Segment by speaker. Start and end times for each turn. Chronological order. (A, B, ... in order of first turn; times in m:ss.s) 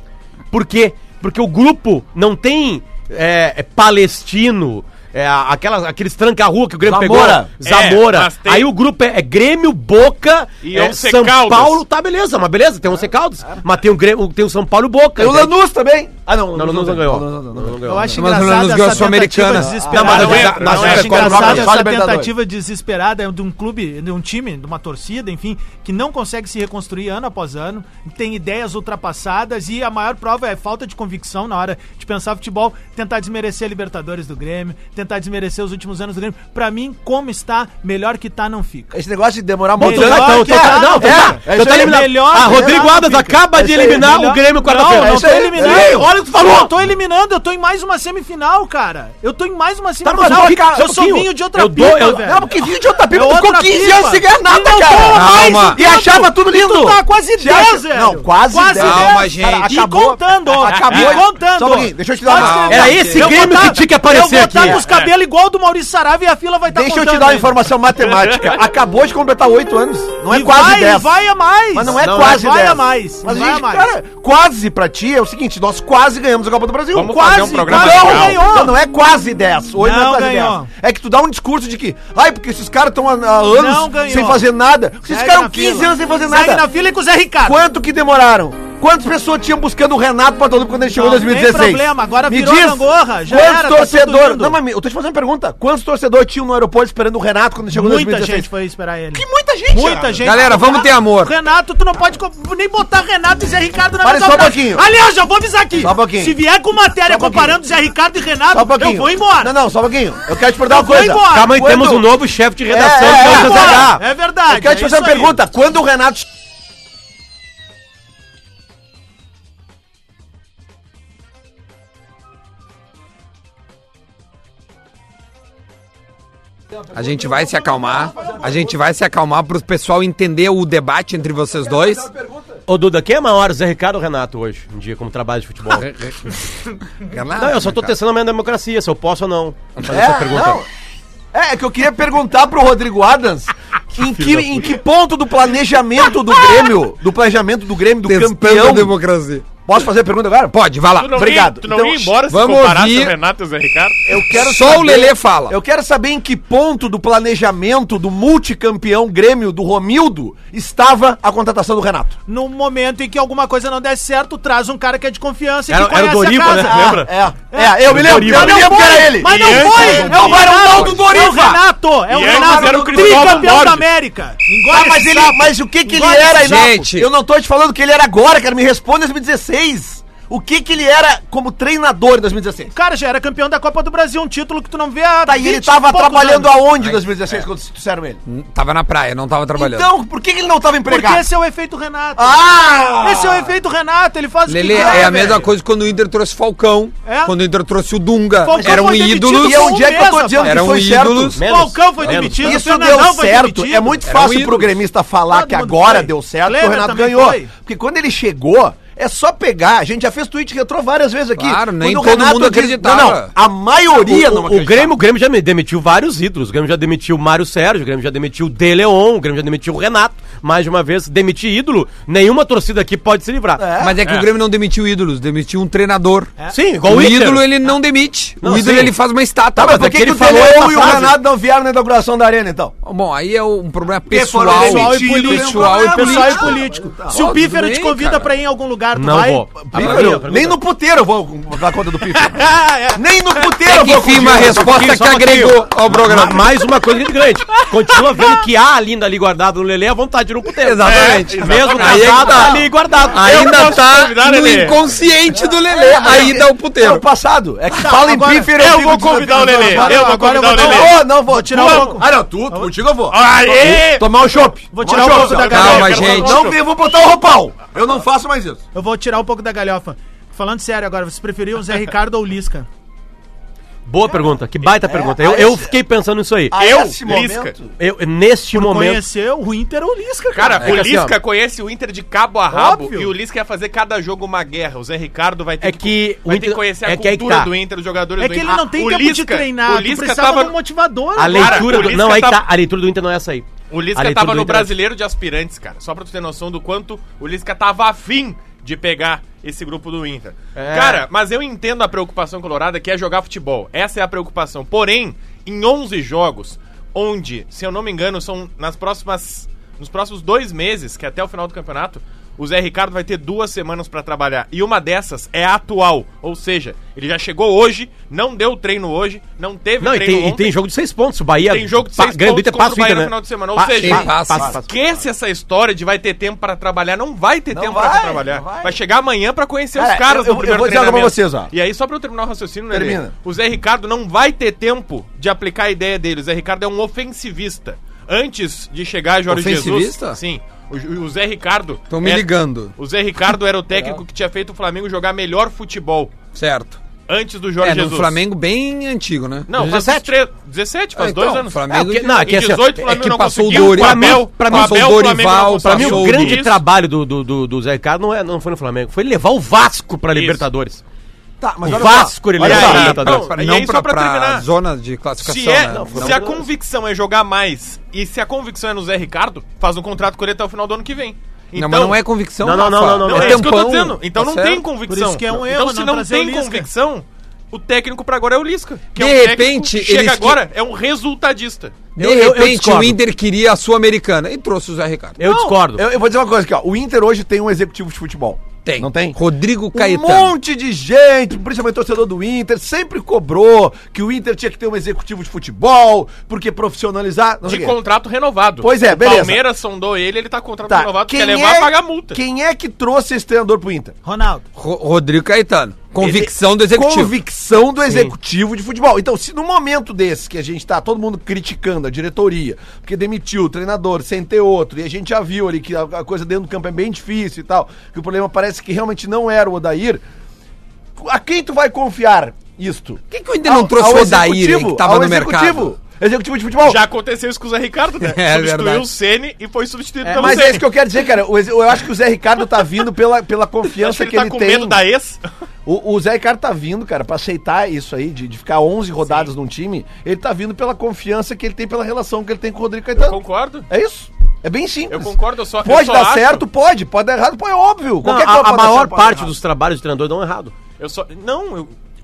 0:00.5-0:15.5 A
0:06.8-0:07.6 B
0:07.6-0:08.7 C
0:10.6-0:11.8 C
0:15.2-0:18.2 B
0:16.5-0:18.2 A
0:17.9-0:38.9 D
0:18.2-0:19.9 E
0:18.9-0:22.3 B
0:19.9-0:21.7 A
0:20.0-0:21.6 C
0:38.9-0:42.9 B
0:39.8-0:52.4 D
0:39.8-0:46.7 A
0:43.5-0:44.4 B
0:44.9-0:46.1 B
0:50.0-0:52.6 A
0:50.1-0:50.9 B
0:52.0-1:02.9 B
0:53.1-1:07.6 D
0:55.1-0:55.8 E
0:58.8-0:59.7 E
1:00.7-1:01.2 C
1:02.3-1:03.3 E
1:02.7-1:04.8 A
1:04.6-1:05.1 C
1:06.7-1:11.1 B
1:08.0-1:08.6 C
1:10.3-1:13.9 D
1:11.7-1:26.7 B
1:12.0-1:12.4 A
1:16.9-1:18.4 C
1:17.0-1:18.8 D
1:19.8-1:20.7 D
1:23.5-1:24.5 D
1:25.0-1:27.6 D
1:27.4-1:38.5 B
1:30.9-1:34.6 D
1:37.7-1:49.5 D
1:39.2-1:40.3 B
1:40.2-1:41.3 E
1:44.0-1:44.8 B
1:45.8-1:46.4 B
1:47.1-1:47.6 B
1:48.5-1:52.1 B
1:50.7-1:51.6 D
1:51.3-1:54.0 A
1:52.7-1:56.2 B
1:53.0-1:55.4 D
2:06.9-2:12.1 E
2:07.4-2:08.7 B
2:11.6-2:12.6 B
2:12.7-2:15.9 A
2:15.7-2:18.0 E
2:17.4-2:20.6 A
2:19.9-2:20.7 B
2:21.3-2:28.9 B
2:24.0-2:24.6 A
2:28.0-2:29.5 E
2:29.6-2:30.6 B
2:30.5-2:31.4 E
2:31.0-2:34.1 C
2:31.1-2:32.2 B
2:32.3-2:33.2 E
2:34.1-2:42.2 B
2:34.3-2:35.6 E
2:42.3-2:56.7 D
2:45.7-2:47.1 A
2:46.6-2:51.6 B
2:47.9-2:49.0 A
2:49.2-2:50.3 C
2:50.7-2:51.0 E
2:52.1-2:53.8 C
2:52.2-2:53.6 B
2:54.7-3:02.7 B
2:56.4-2:57.1 E
3:02.7-3:06.6 D
3:05.3-3:08.2 B
3:08.3-3:09.9 E
3:09.6-3:11.3 B
3:10.9-3:12.4 D
3:12.2-3:13.5 B
3:13.0-3:15.5 D
3:14.5-3:19.8 E
3:14.7-3:15.4 B
3:17.1-3:17.4 D
3:18.4-3:20.7 D
3:18.6-3:21.4 B
3:20.4-3:21.4 E
3:21.4-3:22.6 A
3:21.4-3:24.0 D
3:22.1-3:34.9 B
3:24.0-3:24.8 E
3:25.3-3:27.5 D
3:31.4-3:33.3 E
3:33.9-3:43.6 A
3:43.6-3:44.0 B
3:43.8-3:46.3 E
3:46.5-3:47.5 A
3:46.8-3:51.1 E
3:48.4-3:48.9 A
3:49.6-3:52.7 B
3:50.0-3:51.2 A
3:52.8-3:56.6 E
3:54.1-3:57.2 B
3:54.4-3:59.5 D
3:57.1-3:58.3 E
3:58.9-4:00.6 A
3:59.7-4:02.4 B
3:59.8-4:00.2 E
4:02.2-4:03.5 C
4:03.0-4:04.9 B
4:03.7-4:06.5 E
4:04.2-4:13.7 A
4:07.5-4:08.3 C
4:10.6-4:17.0 E
4:10.8-4:12.6 C
4:13.1-4:14.8 C
4:15.3-4:28.6 B
4:17.7-4:22.7 D
4:18.6-4:21.0 C
4:21.5-4:22.0 C
4:23.1-4:24.1 C
4:24.7-4:26.2 D
4:25.0-4:26.6 C
4:25.5-4:26.5 E
4:28.7-4:32.7 D
4:33.9-4:36.6 A
4:34.8-4:35.7 B
4:36.5-4:37.7 B
4:36.6-4:37.6 C
4:37.8-4:39.0 A
4:38.5-4:40.6 D
4:40.3-4:50.6 C
4:40.6-4:41.2 A
4:42.5-4:43.1 D
4:45.6-4:47.5 A
4:48.2-4:52.0 D
4:51.2-4:54.7 A
4:51.3-4:52.4 C
4:53.7-5:20.5 C
5:00.6-5:01.1 A
5:19.8-5:25.0 A
5:21.4-5:46.1 C
5:23.8-5:24.5 E
5:27.5-5:28.8 B
5:29.8-5:31.5 B
5:32.7-5:33.2 B
5:39.3-5:40.2 E
5:41.9-5:42.7 E
5:46.3-5:46.8 E
5:47.1-5:48.2 C
5:47.6-5:49.5 E
5:49.5-5:56.6 C
5:49.5-5:50.1 A
5:51.0-5:56.4 E
5:51.7-5:55.1 A
5:55.6-6:00.8 A
6:00.1-6:00.4 C
6:01.4-6:03.2 B
6:01.6-6:03.3 A
6:02.4-6:04.5 C
6:02.5-6:06.2 E
6:05.2-6:12.0 C
6:05.7-6:06.4 A
6:11.6-6:14.6 E
6:12.4-6:13.6 A
6:12.9-6:21.8 C
6:14.9-6:16.7 D
6:19.0-6:20.4 E
6:22.0-6:25.2 E
6:22.0-6:23.0 A
6:25.2-6:25.8 A
6:25.2-6:29.2 B
6:28.6-6:30.3 E
6:29.7-6:37.8 B
6:37.4-6:42.2 C
6:38.6-6:39.4 B
6:40.7-6:44.0 B
6:44.0-6:44.4 D
6:44.6-6:47.2 E
6:46.0-7:00.0 B
6:47.8-6:48.1 A
7:01.0-7:06.8 B
7:03.1-7:05.7 E
7:06.6-7:10.7 C
7:08.0-7:08.9 E
7:10.0-7:10.5 A
7:10.1-7:14.8 B
7:13.8-7:15.2 C
7:15.7-7:29.3 B
7:23.0-7:23.7 C
7:24.9-7:26.4 C
7:28.0-7:30.6 A
7:30.8-7:31.7 C